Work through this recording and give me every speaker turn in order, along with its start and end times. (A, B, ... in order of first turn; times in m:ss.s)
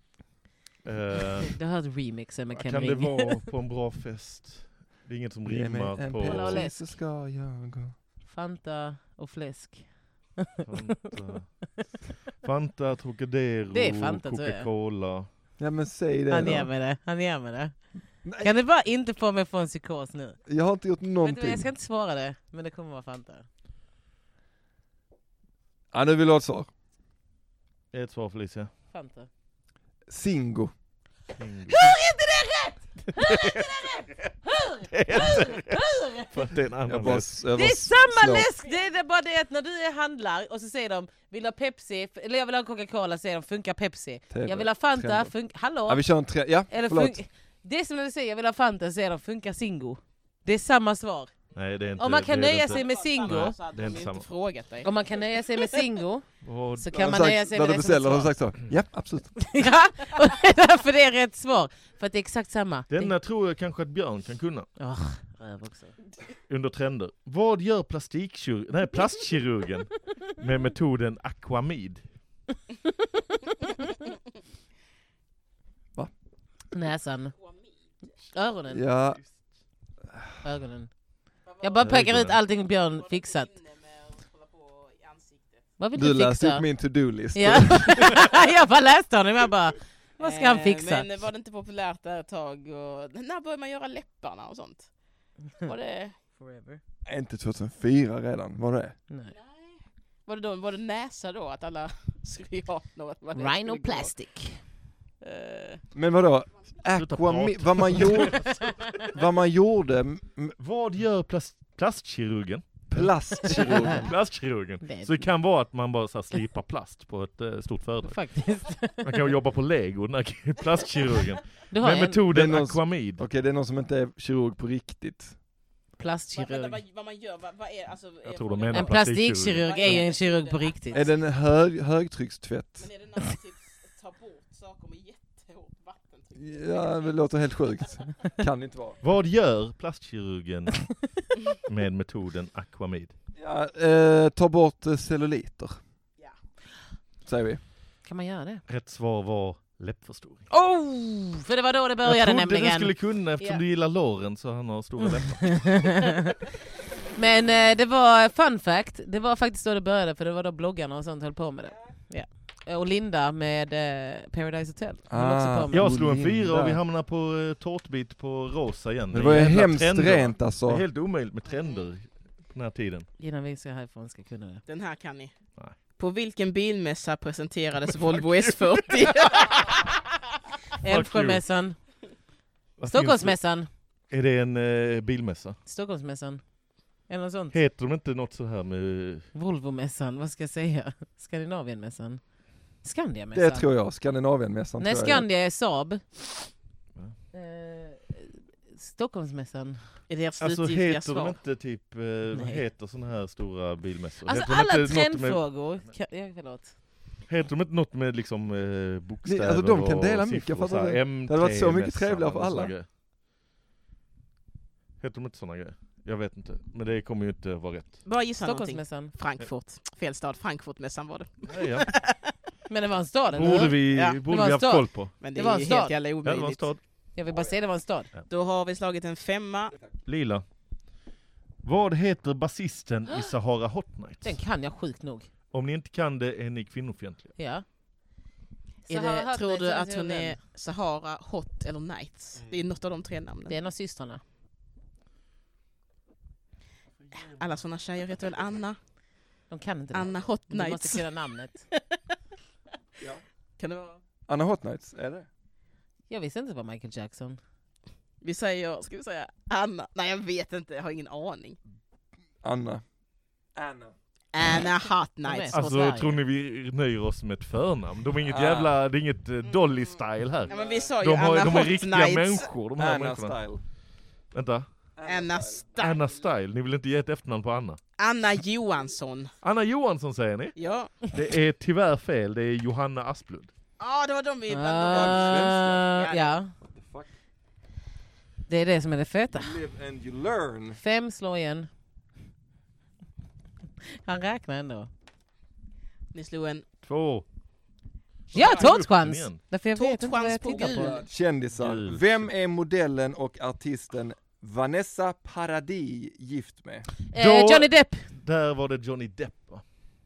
0:00.8-0:01.6 A
0:01.5-0:03.5 B
0:02.5-0:06.7 A
0:05.5-0:08.0 C
0:06.2-0:06.9 B
0:08.3-0:10.8 B
0:10.7-0:11.5 A
0:12.4-0:15.3 A
0:13.7-0:14.7 B
0:15.6-0:16.7 C
0:16.3-0:17.8 B
0:18.2-0:18.5 C
0:18.4-0:20.4 B
0:20.5-0:21.7 C
0:21.2-0:23.5 B
0:25.9-0:26.7 C
0:27.9-0:28.7 A
0:28.9-0:29.3 B
0:30.1-0:30.7 C
0:31.4-0:31.9 A
0:31.7-0:36.5 B
0:33.1-0:33.9 A
0:34.9-0:37.3 A
0:36.9-0:38.5 C
0:37.5-0:46.0 B
0:44.3-0:45.3 C
0:45.9-0:47.2 C
0:46.7-0:51.3 B
0:51.6-0:54.3 A
0:51.6-0:51.9 D
0:52.0-0:53.6 B
0:52.7-0:54.9 D
0:54.8-0:56.3 B
0:56.4-0:56.9 A
0:56.8-0:58.3 B
0:56.9-0:59.4 C
0:59.4-1:03.1 B
1:02.9-1:04.7 A
1:04.8-1:06.0 B
1:06.5-1:12.0 A
1:16.7-1:17.3 B
1:17.4-1:17.7 D
1:18.3-1:18.8 B
1:18.7-1:19.2 C
1:20.4-1:20.9 B
1:21.5-1:21.8 D
1:21.6-1:23.5 B
1:21.8-1:22.4 A
1:23.0-1:25.6 D
1:25.8-1:26.7 B
1:26.0-1:28.2 C
1:27.3-1:31.1 B
1:30.2-1:34.9 D
1:35.6-1:36.2 D
1:36.3-1:36.8 B
1:37.0-1:39.0 C
1:39.3-1:44.1 D
1:43.4-1:44.6 B
1:45.2-1:45.8 D
1:45.9-1:50.6 C
1:46.9-1:48.9 A
1:50.6-1:58.2 A
1:52.9-1:54.1 C
1:53.5-1:54.0 B
1:54.8-1:55.2 B
1:58.1-1:59.2 B
1:59.0-2:03.2 A
2:01.7-2:02.2 B
2:02.3-2:05.4 C
2:06.0-2:06.8 B
2:06.3-2:11.1 D
2:08.2-2:10.0 A
2:08.7-2:11.1 B
2:10.9-2:12.9 C
2:12.8-2:17.2 D
2:16.4-2:19.0 C
2:19.0-2:20.9 A
2:21.6-2:23.1 A
2:23.4-2:25.8 C
2:27.2-2:27.6 C
2:28.1-2:28.6 B
2:28.7-2:30.5 A
2:30.5-2:33.6 B
2:32.0-2:36.0 A
2:35.0-2:36.4 B
2:37.1-2:45.8 B
2:45.1-2:46.8 C
2:45.7-2:53.1 A
2:49.1-2:50.8 C
2:53.2-2:54.6 B
2:54.7-2:55.3 D
2:56.0-2:59.5 D
2:57.8-2:59.8 A
3:00.8-3:01.8 B
3:00.8-3:01.4 A
3:02.8-3:03.4 A
3:02.9-3:03.7 B
3:04.1-3:05.6 A
3:05.7-3:06.4 B
3:07.1-3:07.6 B
3:07.5-3:09.3 A
3:09.3-3:12.2 B
3:12.8-3:13.7 B
3:13.3-3:15.3 C
3:14.8-3:16.2 B
3:17.3-3:19.8 B
3:20.1-3:21.4 D
3:20.4-3:25.4 A
3:22.3-3:22.6 B
3:24.2-3:26.8 B
3:27.3-3:32.9 A
3:29.2-3:32.7 C
3:35.0-3:38.0 A
3:38.0-3:42.4 D
3:38.4-3:39.1 B
3:41.5-3:41.9 A
3:42.7-3:46.0 B
3:43.3-3:45.1 A
3:43.9-3:44.2 D
3:45.2-3:46.7 D
3:46.2-3:46.8 A
3:47.2-3:48.1 B
3:48.3-3:49.8 D
3:50.1-3:50.4 A
3:51.6-3:54.4 A
3:54.2-3:55.3 B
3:55.5-3:57.3 A
3:57.4-3:57.6 B
3:58.9-4:03.6 D
3:58.9-4:00.4 B
4:03.5-4:04.2 B
4:07.1-4:08.8 D
4:09.5-4:11.7 B
4:09.9-4:11.1 D
4:13.6-4:14.0 D
4:14.3-4:15.3 C
4:16.1-4:17.4 B
4:18.2-4:21.6 D
4:22.4-4:22.8 C
4:23.6-4:23.9 C
4:24.3-4:25.9 D
4:25.2-4:26.2 B
4:25.5-4:33.4 A
4:28.3-4:28.7 C
4:30.5-4:32.5 D
4:30.5-4:30.9 C
4:32.8-4:33.6 C
4:34.3-4:34.7 A
4:35.0-4:35.6 C
4:35.0-4:36.1 D
4:35.8-4:37.8 A
4:38.0-4:39.3 D
4:39.4-4:43.5 A
4:40.6-4:40.9 D
4:43.8-4:46.4 D
4:44.5-4:46.5 B
4:44.9-4:45.9 C
4:46.6-4:47.1 C
4:48.5-4:49.6 B
4:49.3-4:50.8 C
4:50.8-4:51.7 B
4:53.8-4:54.9 B
4:56.1-4:56.7 D
4:56.8-4:57.2 A
4:58.3-4:58.8 D
4:58.3-4:59.4 A
4:58.3-5:01.0 B
4:59.8-5:01.1 D
5:00.5-5:06.9 C
5:01.5-5:02.3 A
5:07.1-5:08.1 B
5:07.2-5:09.6 A